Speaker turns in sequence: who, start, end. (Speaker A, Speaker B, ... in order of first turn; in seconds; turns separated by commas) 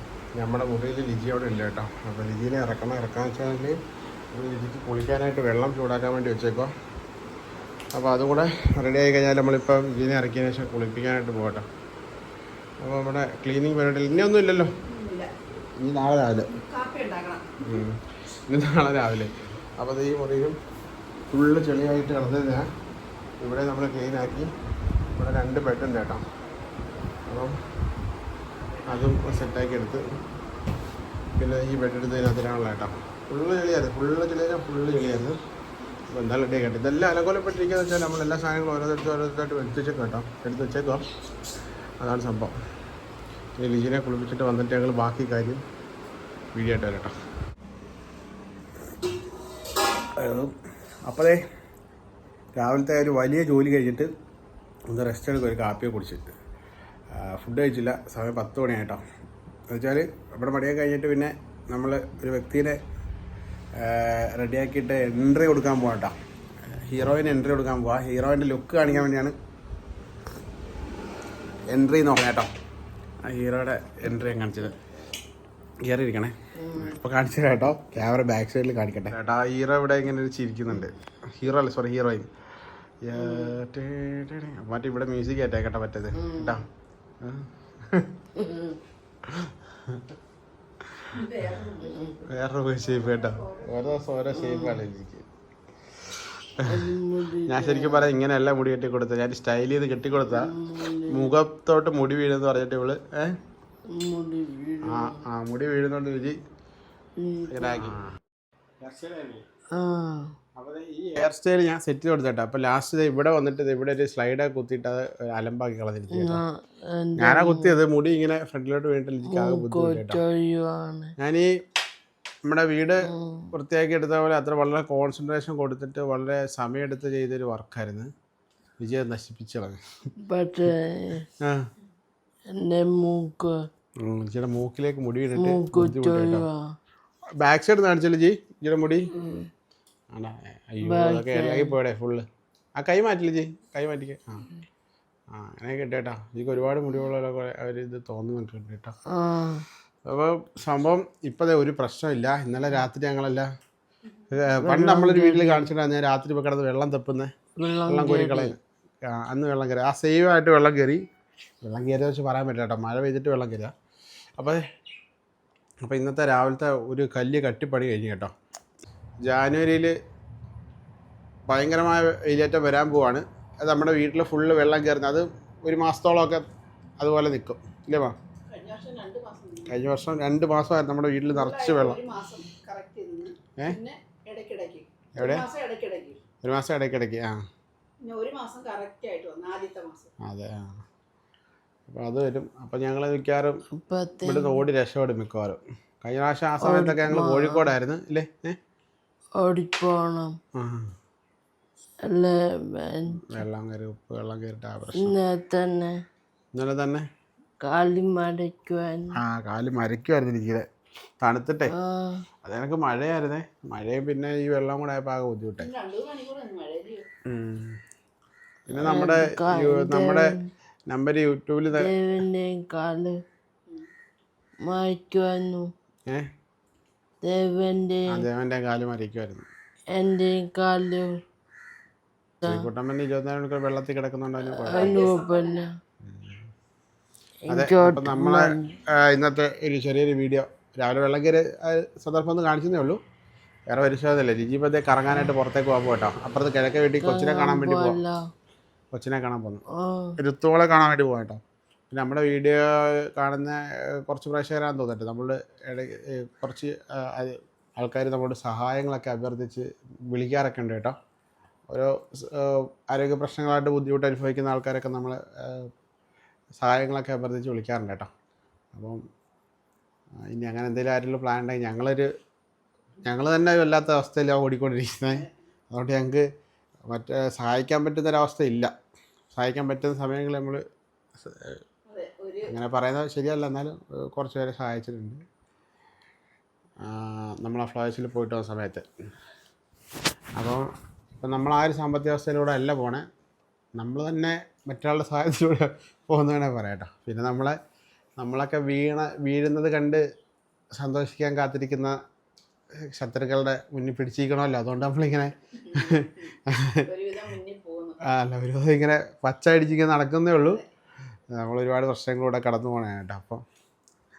Speaker A: 0.3-3.8, Speaker A: 4.3-6.7, Speaker A: 7.9-11.7, Speaker A: 12.8-14.7, Speaker B: 14.8-15.3, Speaker A: 15.8-16.5, Speaker B: 16.5-17.6, Speaker A: 17.6-20.6, Speaker A: 21.3-22.6, Speaker A: 23.4-24.5, Speaker A: 25.1-26.2, Speaker A: 27.3-27.5, Speaker A: 28.9-30.0, Speaker A: 31.4-35.4, Speaker A: 36.1-41.0, Speaker A: 42.0-42.5, Speaker A: 43.6-45.6, Speaker A: 46.5-47.1, Speaker A: 50.1-50.5, Speaker A: 51.0-51.4, Speaker A: 52.5-54.1, Speaker A: 54.9-56.2, Speaker A: 57.1-59.0, Speaker A: 59.7-62.8, Speaker A: 63.8-66.1, Speaker A: 66.7-69.3, Speaker A: 71.7-72.5, Speaker A: 73.2-74.8, Speaker A: 75.8-82.3, Speaker C: 76.6-77.0, Speaker A: 83.0-86.6, Speaker C: 83.2-83.5, Speaker C: 86.2-86.6, Speaker A: 87.2-88.1, Speaker C: 88.4-88.8, Speaker A: 89.3-90.0, Speaker B: 91.1-92.2, Speaker A: 92.2-95.2, Speaker B: 92.8-94.0, Speaker C: 94.3-94.8, Speaker A: 96.2-96.7, Speaker C: 96.6-98.1, Speaker A: 97.5-100.5, Speaker C: 100.3-101.3, Speaker A: 101.1-103.3, Speaker C: 103.9-105.2, Speaker A: 104.8-106.4, Speaker C: 107.2-107.9, Speaker A: 107.5-108.1, Speaker A: 108.8-109.5, Speaker C: 109.7-110.3, Speaker A: 110.5-116.4, Speaker C: 116.1-117.8, Speaker A: 117.2-120.2, Speaker C: 119.3-121.1, Speaker A: 121.2-121.5, Speaker A: 122.5-128.1, Speaker C: 123.1-123.5, Speaker A: 128.8-129.8, Speaker C: 130.3-131.2, Speaker A: 131.4-131.7, Speaker C: 132.5-133.5, Speaker A: 134.0-136.4, Speaker C: 135.4-136.6, Speaker A: 137.4-139.1, Speaker C: 139.1-139.5, Speaker A: 140.1-142.2, Speaker C: 140.8-141.7, Speaker A: 142.8-144.4, Speaker A: 145.3-148.9, Speaker C: 149.1-149.6, Speaker A: 150.0-153.5, Speaker A: 154.3-157.3, Speaker C: 154.6-155.7, Speaker C: 157.6-158.5, Speaker A: 157.9-161.0, Speaker A: 161.6-163.7, Speaker A: 165.8-168.3, Speaker A: 169.3-169.9, Speaker A: 171.5-176.4, Speaker A: 177.0-178.1, Speaker B: 178.5-179.7, Speaker A: 179.7-182.0, Speaker B: 181.3-186.2, Speaker A: 185.2-185.4, Speaker A: 186.4-187.4, Speaker B: 188.0-190.1, Speaker A: 190.2-190.8, Speaker A: 191.9-193.6, Speaker C: 193.7-194.6, Speaker A: 194.2-198.6, Speaker C: 196.6-197.6, Speaker C: 199.4-200.3, Speaker A: 200.6-200.9, Speaker C: 202.1-203.4, Speaker A: 203.2-205.2, Speaker C: 205.0-205.9, Speaker A: 206.5-207.0, Speaker C: 207.6-209.1, Speaker A: 209.2-210.7, Speaker A: 211.2-211.7, Speaker C: 211.7-212.2, Speaker A: 212.4-215.7, Speaker B: 215.6-217.1, Speaker A: 217.2-217.8, Speaker A: 218.7-220.3, Speaker C: 218.7-220.3, Speaker A: 220.9-221.9, Speaker C: 221.8-223.2, Speaker C: 224.7-225.7, Speaker C: 227.2-228.1, Speaker A: 228.1-229.5, Speaker C: 229.9-231.1, Speaker A: 232.4-235.0, Speaker C: 234.7-235.7, Speaker B: 234.7-235.6, Speaker A: 236.0-236.4, Speaker C: 237.5-238.7, Speaker A: 237.5-243.0, Speaker A: 243.7-248.0, Speaker C: 247.0-248.2, Speaker A: 248.9-249.6, Speaker C: 249.8-250.1, Speaker A: 250.2-251.4, Speaker A: 251.9-260.9, Speaker A: 261.7-265.7, Speaker A: 266.6-268.1, Speaker A: 268.7-269.0, Speaker A: 270.3-272.1, Speaker A: 273.0-276.2, Speaker A: 276.9-278.7, Speaker A: 279.3-280.6, Speaker A: 281.2-281.6, Speaker B: 281.9-282.5, Speaker A: 282.5-285.2, Speaker A: 286.8-288.9, Speaker A: 290.4-290.7, Speaker A: 291.2-293.1, Speaker A: 293.8-297.6, Speaker A: 298.2-300.0, Speaker A: 300.8-301.9, Speaker A: 302.9-306.8, Speaker B: 305.6-306.3, Speaker B: 306.9-308.0, Speaker A: 308.1-310.6, Speaker A: 311.3-313.4